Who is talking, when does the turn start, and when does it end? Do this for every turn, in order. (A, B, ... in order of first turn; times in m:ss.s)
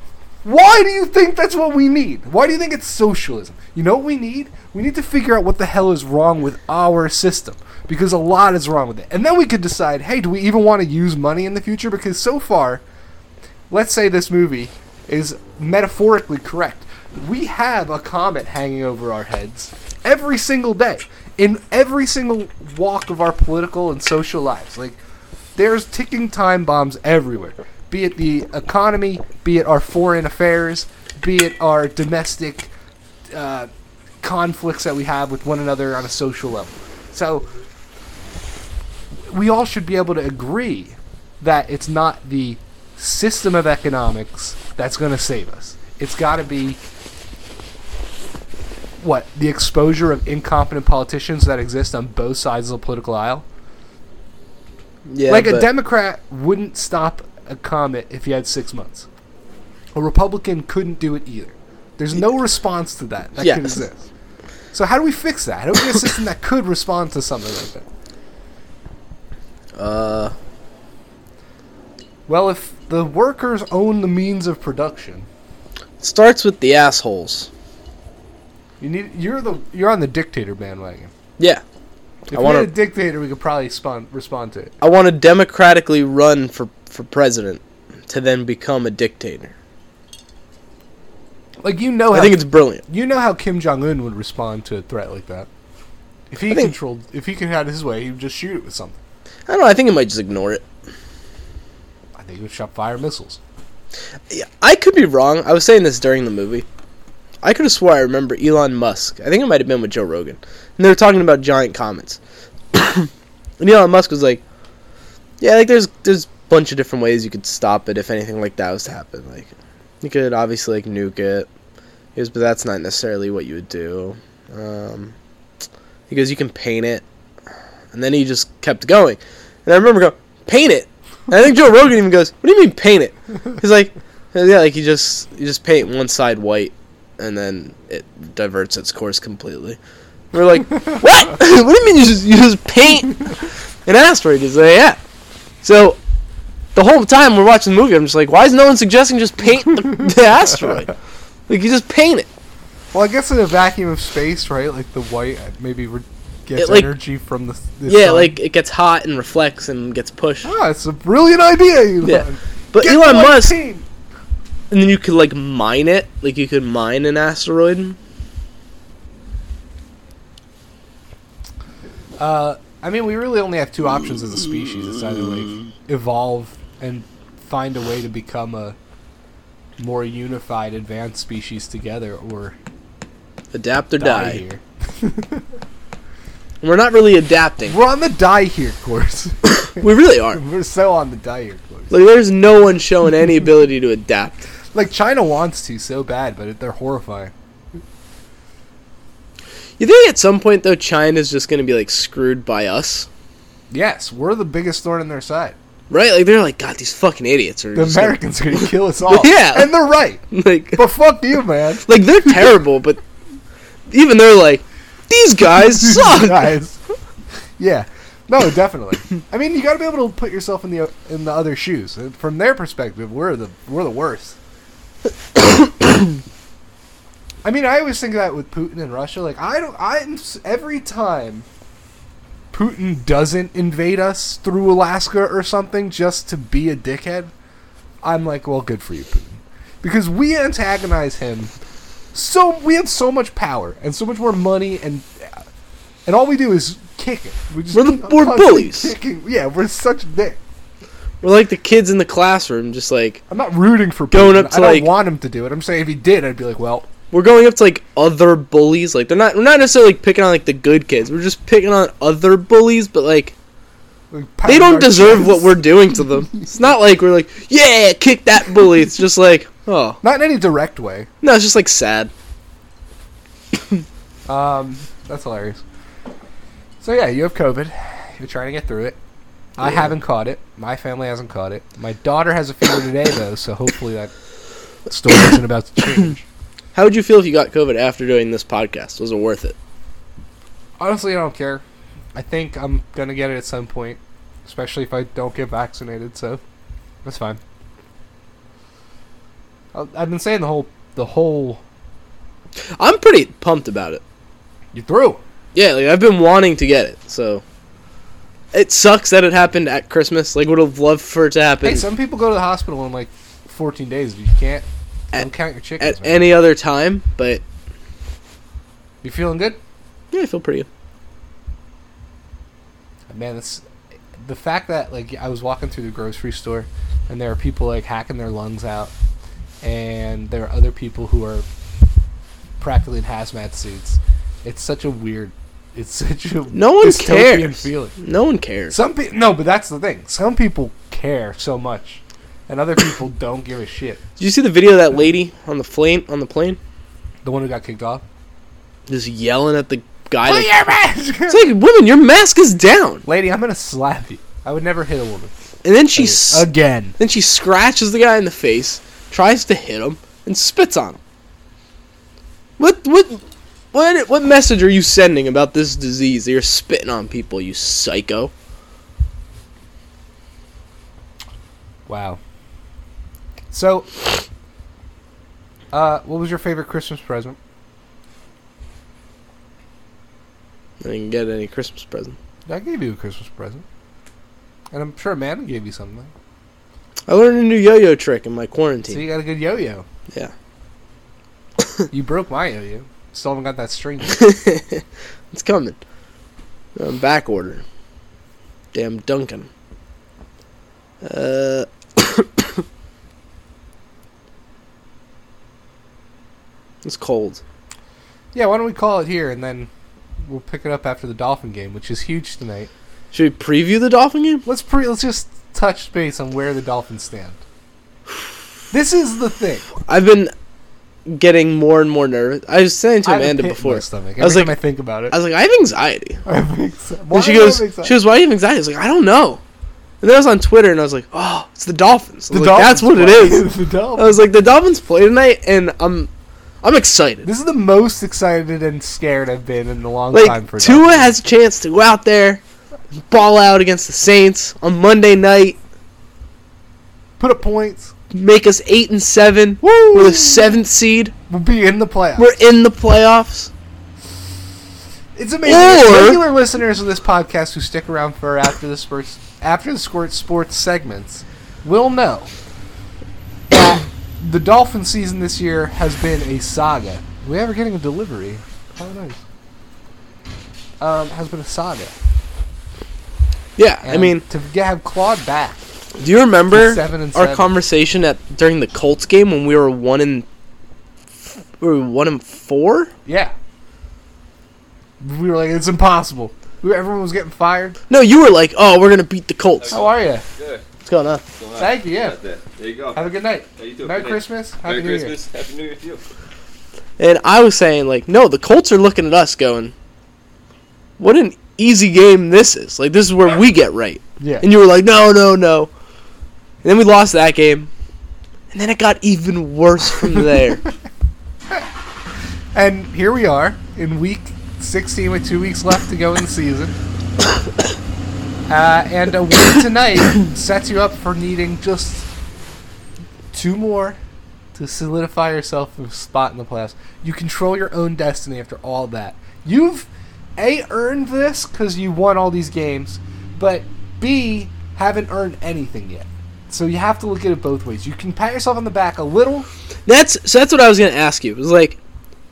0:00.4-0:12.8 A
0:13.7-0:25.0 A
0:25.6-0:32.7 A
0:33.3-0:33.7 A
0:34.2-0:37.5 A
0:39.3-0:46.8 A
0:49.0-0:53.4 A
0:55.1-0:55.7 B
0:55.3-0:59.1 A
0:59.9-1:04.1 A
1:03.4-1:03.8 B
1:04.7-1:07.8 A
1:09.8-1:10.3 B
1:12.3-1:15.3 A
1:16.0-1:17.5 B
1:18.8-1:21.1 A
1:22.3-1:24.7 A
1:22.3-1:22.7 B
1:24.8-1:29.5 B
1:31.6-1:35.5 A
1:32.1-1:32.8 B
1:36.3-1:39.0 A
1:39.5-1:40.6 B
1:42.2-1:43.4 A
1:44.3-1:46.6 B
1:47.4-1:52.2 B
1:52.7-1:54.4 B
1:55.4-2:01.5 B
2:02.1-2:05.1 B
2:06.1-2:07.0 B
2:07.9-2:19.8 B
2:20.3-2:25.0 B
2:25.6-2:26.0 B
2:26.7-2:30.9 B
2:31.5-2:32.3 B
2:32.9-2:38.4 A
2:36.6-2:36.9 B
2:37.9-2:40.5 B
2:40.4-2:43.8 A
2:42.0-2:43.5 B
2:44.7-2:48.0 B
2:52.2-2:58.8 A
2:59.8-3:02.5 A
3:03.5-3:04.4 B
3:04.0-3:05.4 A
3:06.6-3:07.8 B
3:07.7-3:09.5 A
3:09.6-3:10.4 B
3:10.3-3:11.9 A
3:11.9-3:14.4 B
3:14.7-3:17.3 A
3:19.8-3:23.1 B
3:23.7-3:25.5 A
3:25.9-3:29.7 B
3:27.7-3:30.2 A
3:30.3-3:30.8 B
3:30.8-3:32.5 A
3:31.8-3:33.0 B
3:33.9-3:36.5 B
3:35.5-3:36.8 A
3:37.6-3:44.4 A
3:47.4-3:51.4 A
3:52.5-3:57.3 A
3:58.0-4:01.5 A
4:02.1-4:05.4 A
4:06.0-4:10.4 A
4:07.7-4:08.9 B
4:11.2-4:13.2 B
4:13.3-4:16.9 A
4:14.1-4:14.9 B
4:17.1-4:23.3 B
4:24.1-4:25.6 A
4:24.4-4:30.0 B
4:30.0-4:31.1 A
4:31.2-4:32.1 B
4:34.3-4:35.6 A
4:36.8-4:39.0 A
4:39.6-4:44.1 A
4:44.9-4:46.2 A
4:46.7-4:49.6 B
4:50.8-4:51.6 A
4:52.1-4:56.4 A
4:57.0-4:57.4 A
4:59.7-5:01.6 A
5:02.8-5:04.0 B
5:04.7-5:05.2 A
5:05.5-5:07.4 B
5:08.5-5:11.9 B
5:11.6-5:16.3 A
5:15.8-5:17.4 B
5:19.0-5:19.6 A
5:20.1-5:20.7 B
5:23.1-5:23.6 A
5:24.2-5:28.9 A
5:29.6-5:31.4 A
5:32.6-5:37.9 A
5:36.5-5:38.8 B
5:38.7-5:44.0 A
5:44.2-5:46.6 B
5:47.2-5:48.0 A
5:48.9-5:50.5 B
5:50.2-5:51.5 A
5:51.3-5:53.0 B
5:53.0-5:55.3 A
5:55.6-6:01.0 B
5:55.9-5:57.0 A
6:02.6-6:03.2 B
6:03.7-6:08.3 B
6:11.9-6:12.2 A
6:13.5-6:14.0 A
6:15.7-6:17.4 A
6:20.8-6:22.2 B
6:22.5-6:23.6 A
6:24.7-6:26.1 A
6:27.1-6:29.0 B
6:28.9-6:29.8 A
6:31.9-6:34.2 A
6:34.1-6:35.8 B
6:36.8-6:37.6 B
6:38.7-6:39.5 B
6:41.0-6:42.6 B
6:46.8-6:47.4 B
6:48.3-6:49.7 A
6:50.2-6:52.7 A
6:53.1-6:54.4 B
6:54.4-6:57.4 A
6:58.7-6:59.7 A
6:59.8-7:00.3 B
7:01.0-7:04.5 B
7:03.0-7:05.1 A
7:05.1-7:06.2 B
7:06.2-7:08.0 A
7:07.1-7:09.4 B
7:10.0-7:16.1 B
7:12.3-7:14.2 A
7:16.6-7:17.3 B
7:17.2-7:21.2 A
7:20.1-7:22.4 B
7:23.1-7:25.6 B
7:27.2-7:27.9 A
7:28.1-7:31.1 B
7:29.6-7:30.4 A
7:31.3-7:32.3 A
7:32.2-7:33.5 B
7:35.1-7:42.3 A
7:35.4-7:36.2 B
7:43.5-7:49.2 A
7:50.8-7:51.9 A
7:53.6-7:54.2 B
7:53.8-7:55.6 A
7:56.0-8:00.2 B
7:56.5-7:57.5 A
8:01.6-8:02.9 B
8:03.0-8:03.3 A
8:05.0-8:07.8 A
8:07.9-8:09.8 B
8:09.6-8:10.6 C
8:09.7-8:10.2 A
8:10.8-8:11.2 B
8:11.4-8:16.0 C
8:11.6-8:12.2 A
8:12.9-8:15.2 A
8:17.0-8:19.7 B
8:21.0-8:25.7 B
8:24.2-8:24.4 A
8:26.6-8:27.7 B
8:28.5-8:30.6 B
8:32.5-8:36.8 A
8:38.5-8:42.1 A
8:43.3-8:44.0 A
8:44.5-8:59.5 A
8:59.9-9:01.8 B